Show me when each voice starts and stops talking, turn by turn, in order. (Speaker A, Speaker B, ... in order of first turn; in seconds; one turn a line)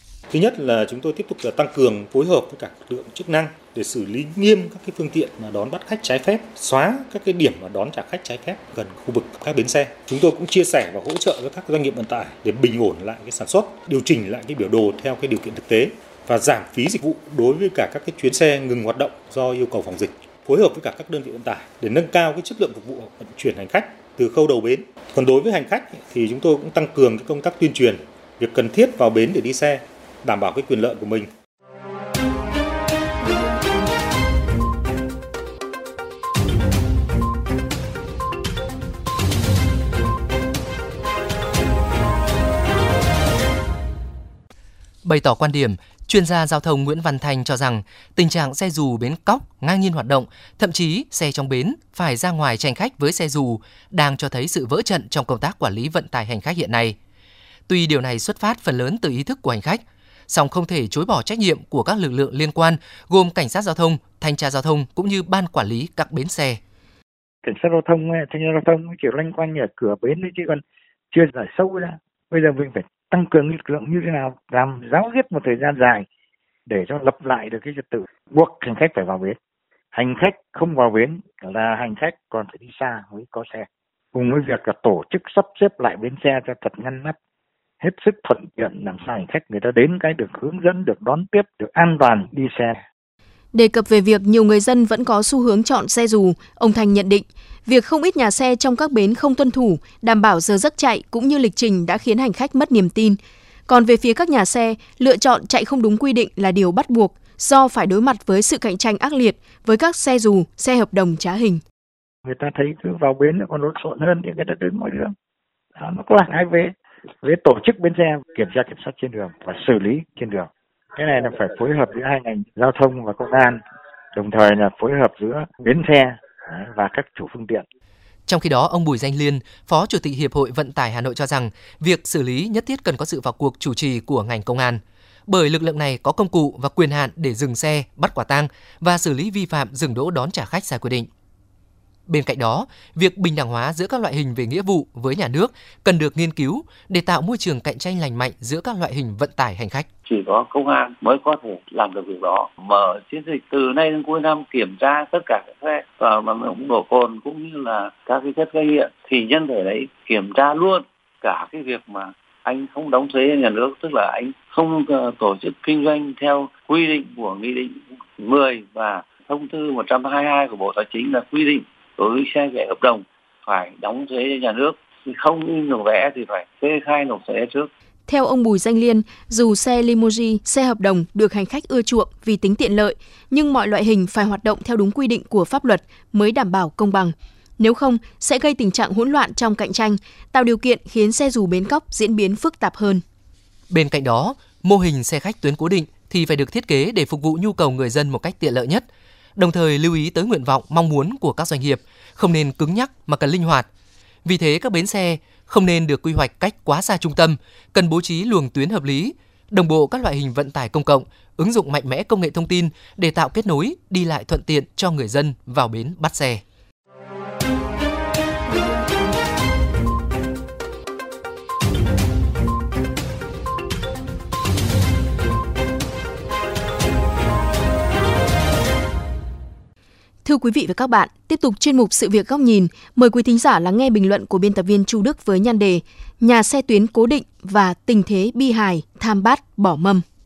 Speaker A: 0.3-31.3
Speaker B: 45.0-57.0
Speaker B: 57.7-66.6
Speaker C: 67.4-76.1
Speaker C: 76.7-79.4
Speaker C: 79.9-87.2
Speaker C: 87.8-92.8
Speaker D: 93.5-111.6
Speaker C: 112.2-115.1
Speaker C: 115.8-123.6
Speaker C: 124.2-127.6
Speaker B: 128.3-141.1
Speaker B: 142.1-149.9
Speaker E: 150.1-177.7
Speaker D: 178.1-193.0
Speaker B: 193.7-203.7
Speaker B: 204.2-216.4
Speaker D: 230.2-240.1